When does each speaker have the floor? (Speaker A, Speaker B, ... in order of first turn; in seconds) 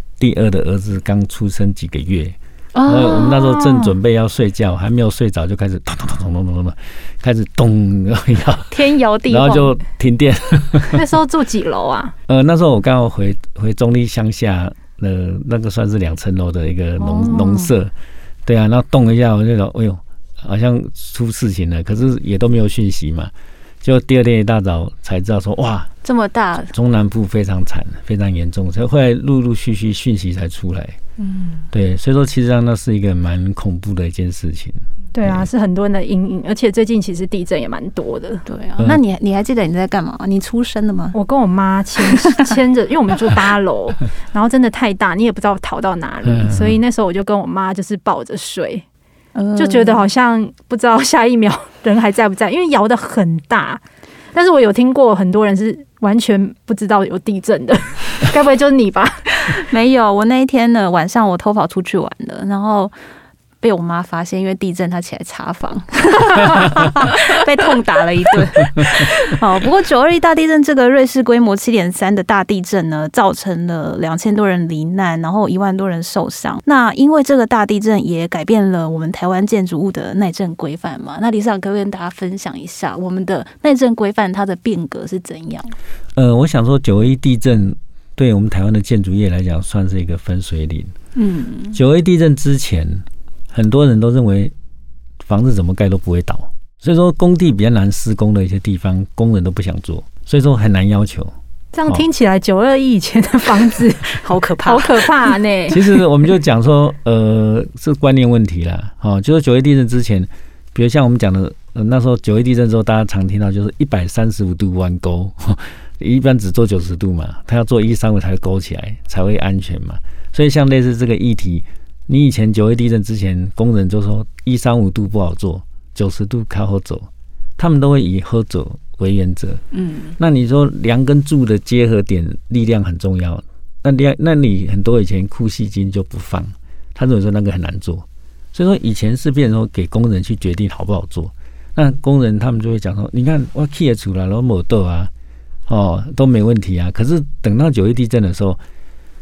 Speaker A: 0.2-8.7, 9.3-11.0, 12.3-17.9, 18.4-23.3, 23.8-25.9, 26.7-31.0, 31.7-35.5, 46.2-46.8, 86.2-90.9, 91.7-94.5, 95.2-101.3, 105.7-129.6, 130.2-145.1, 145.7-148.6
Speaker B: 2.7-3.9, 8.7-9.8, 17.0-17.7, 26.0-26.7, 31.2-31.7, 38.5-41.1, 49.3-50.1, 59.4-62.9, 63.6-85.8, 91.2-91.8, 104.1-105.3, 129.7-130.2
Speaker C: 10.9-12.1, 35.1-38.4, 41.1-48.8, 49.5-53.8, 54.3-59.6, 101.7-105.8